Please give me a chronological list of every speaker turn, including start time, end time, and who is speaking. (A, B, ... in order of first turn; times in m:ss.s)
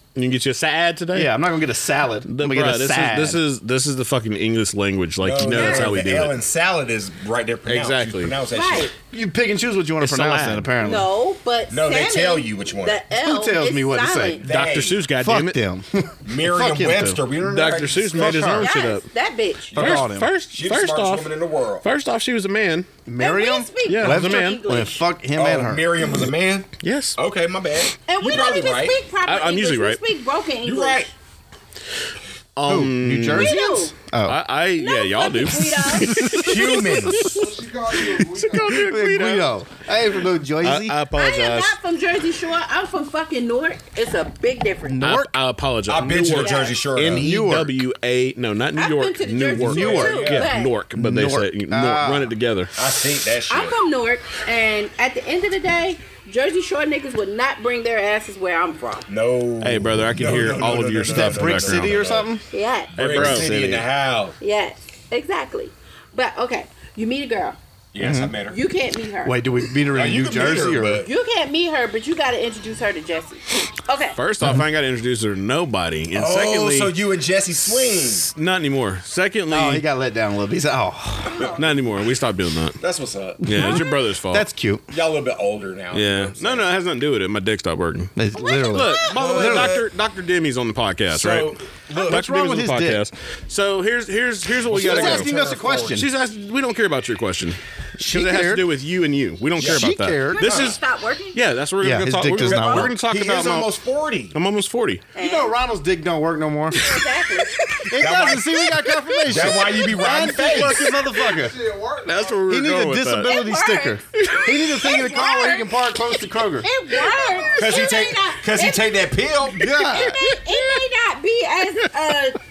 0:00.2-0:01.3 A
0:01.1-0:03.4 B
0:02.3-0:06.4 A
0:05.2-0:08.9 C
0:05.5-0:06.0 D
0:07.7-0:08.4 A
0:08.5-0:08.9 D
0:09.1-0:11.1 B
0:10.0-0:10.7 A
0:10.8-0:14.4 D
0:11.7-0:13.0 C
0:13.2-0:14.4 B
0:14.4-0:15.0 C
0:14.4-0:15.6 A
0:15.2-0:17.2 B
0:16.2-0:18.5 C
0:16.6-0:19.1 A
0:18.1-0:18.7 B
0:18.6-0:19.9 D
0:19.7-0:20.3 B
0:19.7-0:22.9 A
0:19.8-0:21.9 C
0:23.1-0:26.2 B
0:23.2-0:25.1 D
0:23.8-0:24.6 A
0:25.3-0:29.0 C
0:26.8-0:27.2 A
0:28.1-0:31.1 D
0:29.2-0:30.0 A
0:30.6-0:31.1 C
0:32.6-0:33.6 A
0:32.6-0:34.4 B
0:33.3-0:34.0 D
0:34.3-0:37.4 A
0:34.8-0:36.4 D
0:36.2-0:36.5 B
0:36.3-0:37.5 C
0:37.3-0:38.8 E
0:38.3-0:39.5 A
0:38.6-0:41.0 B
0:40.6-0:41.8 A
0:41.1-0:45.0 D
0:44.9-0:45.3 B
0:45.0-0:52.7 A
0:45.9-0:47.3 C
0:46.4-0:46.8 D
0:47.0-0:47.8 B
0:48.8-0:50.8 D
0:49.6-0:50.5 C
0:50.9-0:52.3 B
0:52.8-0:53.8 C
0:53.5-0:59.1 D
0:59.1-1:02.3 C
0:59.6-1:01.9 A
1:01.1-1:02.4 B
1:02.5-1:02.9 D
1:02.9-1:04.4 C
1:03.0-1:03.5 A
1:03.0-1:03.9 B
1:04.4-1:07.6 D
1:07.9-1:08.6 C
1:08.0-1:08.4 B
1:08.4-1:09.4 D
1:09.2-1:11.0 B
1:09.9-1:11.1 C
1:11.0-1:14.2 D
1:14.1-1:16.9 A
1:16.1-1:18.3 C
1:18.2-1:19.8 A
1:19.5-1:21.4 B
1:21.3-1:21.6 D
1:21.6-1:22.8 A
1:22.8-1:23.8 C
1:23.4-1:24.5 A
1:23.5-1:24.8 B
1:24.9-1:26.7 C
1:25.9-1:31.6 A
1:28.2-1:29.8 B
1:28.4-1:29.2 D
1:29.1-1:29.8 C
1:31.1-1:32.2 C
1:31.9-1:33.1 B
1:32.1-1:35.3 A
1:34.7-1:36.1 C
1:34.7-1:36.1 B
1:35.9-1:40.8 A
1:38.0-1:38.7 B
1:39.6-1:39.8 C
1:39.6-1:40.5 B
1:40.3-1:41.4 D
1:40.4-1:40.8 C
1:41.3-1:43.7 A
1:41.8-1:42.9 B
1:42.3-1:44.4 C
1:44.3-1:45.0 A
1:45.1-1:45.6 D
1:45.2-1:47.0 B
1:46.8-1:47.9 D
1:47.8-1:51.6 B
1:48.0-1:48.7 C
1:49.3-1:50.9 C
1:51.2-1:52.5 E
1:52.0-1:53.3 A
1:52.5-1:56.7 B
1:53.2-1:55.8 D
1:54.2-1:54.5 A
1:56.6-1:59.0 D
1:57.1-1:57.9 E
1:57.5-2:00.0 C
1:59.6-2:00.3 B
1:59.6-2:02.4 D